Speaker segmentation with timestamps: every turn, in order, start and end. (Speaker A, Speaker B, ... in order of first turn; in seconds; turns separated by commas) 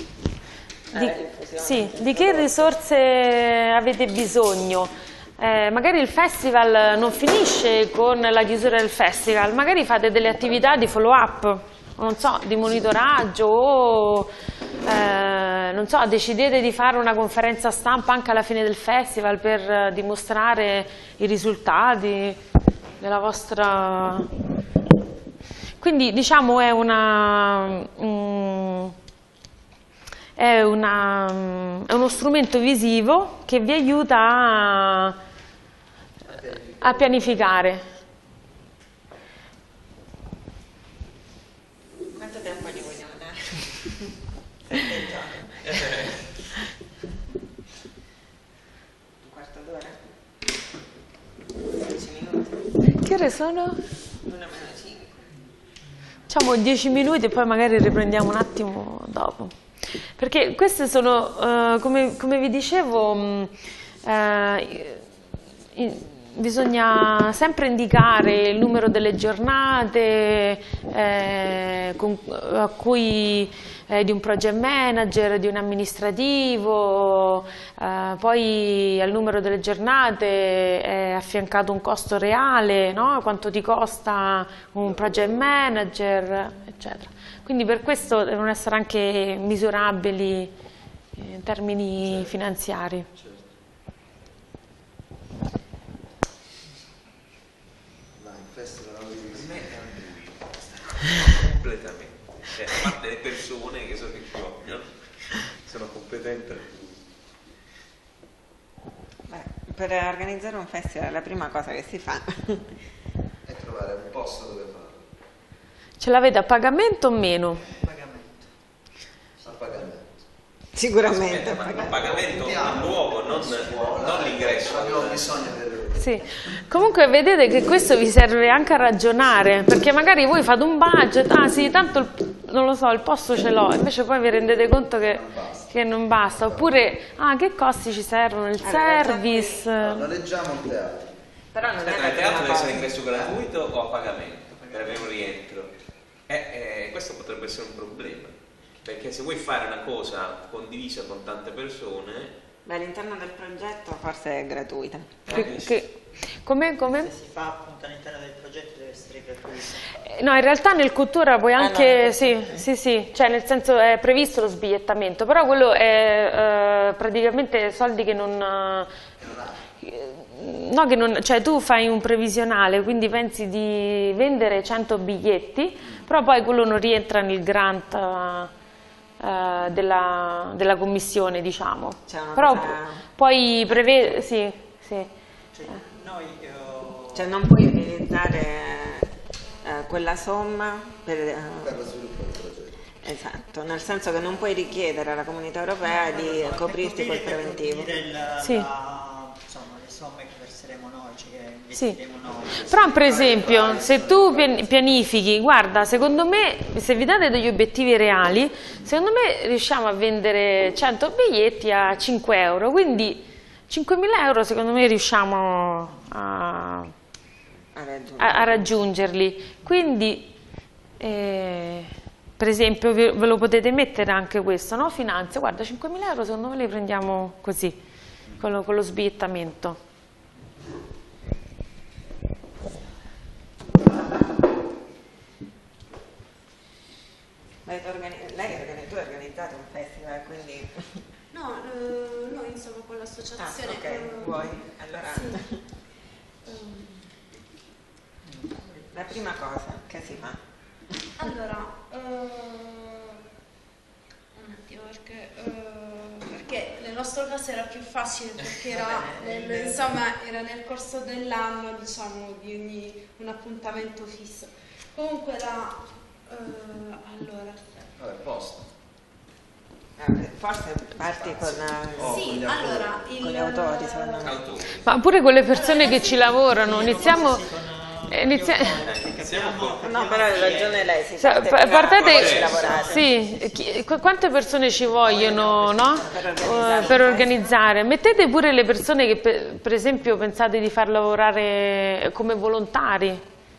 Speaker A: 0.9-2.8, Speaker B: 0.9-14.3, Speaker B: 14.8-22.4, Speaker B: 23.0-24.3, Speaker B: 25.8-28.9, Speaker B: 30.4-35.2, Speaker C: 36.2-37.5, Speaker B: 36.8-37.8, Speaker A: 42.1-44.1, Speaker A: 44.7-46.1, Speaker D: 45.6-46.2, Speaker A: 49.2-50.0, Speaker A: 51.7-52.7, Speaker B: 53.0-53.8, Speaker A: 54.2-55.2, Speaker B: 56.3-63.5, Speaker B: 64.0-65.1, Speaker B: 65.8-90.5, Speaker B: 91.2-93.1, Speaker C: 93.2-93.5, Speaker C: 98.2-99.8, Speaker D: 99.3-100.5, Speaker D: 101.0-107.0, Speaker A: 109.3-112.7, Speaker C: 113.5-115.0, Speaker B: 116.0-117.7, Speaker E: 117.7-118.5, Speaker C: 119.4-120.1, Speaker A: 120.8-122.1, Speaker D: 121.1-125.3, Speaker C: 122.0-126.1, Speaker B: 126.0-140.1, Speaker C: 135.0-135.7, Speaker C: 136.3-136.7, Speaker A: 138.6-139.7, Speaker C: 139.8-141.1, Speaker A: 141.5-142.9, Speaker D: 141.8-145.7, Speaker C: 143.0-143.3, Speaker E: 144.5-145.1, Speaker D: 146.3-152.4, Speaker A: 152.7-155.5, Speaker D: 155.3-155.8, Speaker B: 155.3-157.1, Speaker E: 156.9-159.9, Speaker B: 160.0-168.9, Speaker A: 161.6-162.7, Speaker C: 169.2-169.6, Speaker B: 169.8-178.5, Speaker B: 179.2-185.1, Speaker A: 182.1-183.1, Speaker A: 183.7-184.2, Speaker E: 185.5-187.3, Speaker A: 187.1-191.8, Speaker C: 191.6-192.8, Speaker A: 193.0-197.9, Speaker E: 195.9-203.5, Speaker B: 198.4-198.7, Speaker B: 202.6-216.9, Speaker C: 202.7-204.8, Speaker A: 217.8-218.7, Speaker B: 218.2-220.3, Speaker B: 221.0-227.8, Speaker B: 228.4-229.8, Speaker A: 237.7-241.0, Speaker F: 241.3-244.6, Speaker A: 243.4-245.6, Speaker F: 245.1-245.4, Speaker F: 246.5-247.1, Speaker E: 248.2-249.2, Speaker A: 248.9-250.4, Speaker F: 251.2-253.2, Speaker F: 254.3-267.6, Speaker E: 258.7-260.0, Speaker C: 267.9-268.7, Speaker A: 270.0-272.4, Speaker C: 271.1-273.1, Speaker F: 272.0-274.4, Speaker A: 273.2-274.4, Speaker D: 274.2-274.9, Speaker B: 274.9-277.4, Speaker F: 275.5-277.3, Speaker E: 276.4-280.9, Speaker B: 278.1-278.8, Speaker D: 278.8-279.8, Speaker A: 279.8-283.1, Speaker B: 281.2-293.2, Speaker D: 281.9-282.7, Speaker E: 282.2-283.7, Speaker E: 285.1-287.4, Speaker A: 285.1-287.4